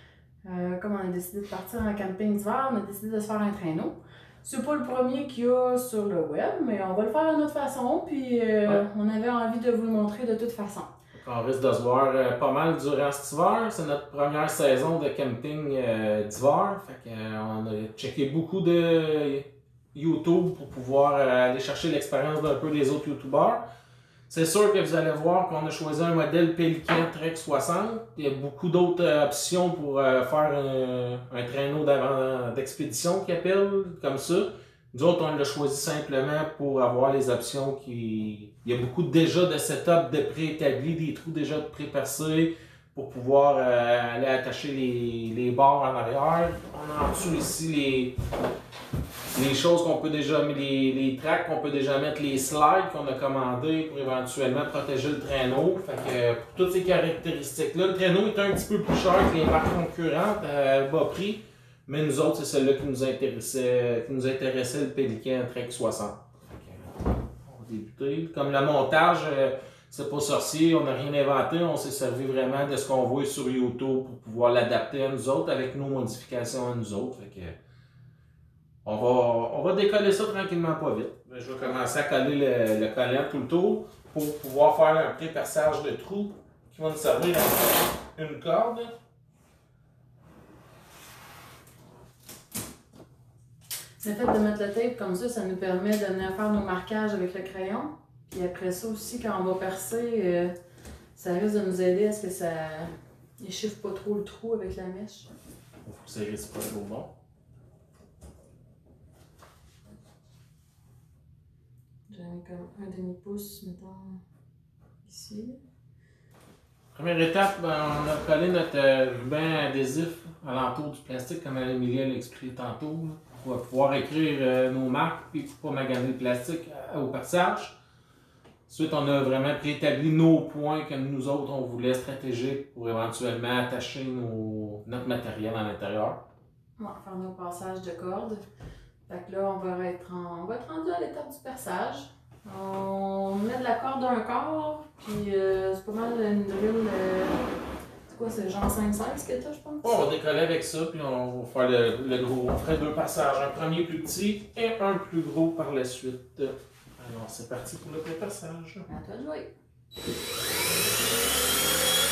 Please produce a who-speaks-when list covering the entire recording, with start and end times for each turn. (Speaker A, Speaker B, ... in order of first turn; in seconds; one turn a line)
Speaker A: 0.4-10.9
Speaker B: 11.2-23.6
Speaker B: 24.3-48.1
Speaker B: 49.3-66.9
Speaker B: 67.4-77.6
Speaker B: 78.8-88.9
Speaker A: 94.0-100.5
Speaker A: 101.1-105.3
Speaker B: 105.8-107.1
Speaker A: 112.1-114.2
Speaker A: 115.0-115.6
Speaker B: 116.9-127.8
Speaker B: 128.7-136.2
Speaker A: 136.8-138.4
Speaker A: 139.1-147.4
Speaker A: 148.1-150.0
Speaker B: 149.8-158.9
Speaker A: 158.9-159.5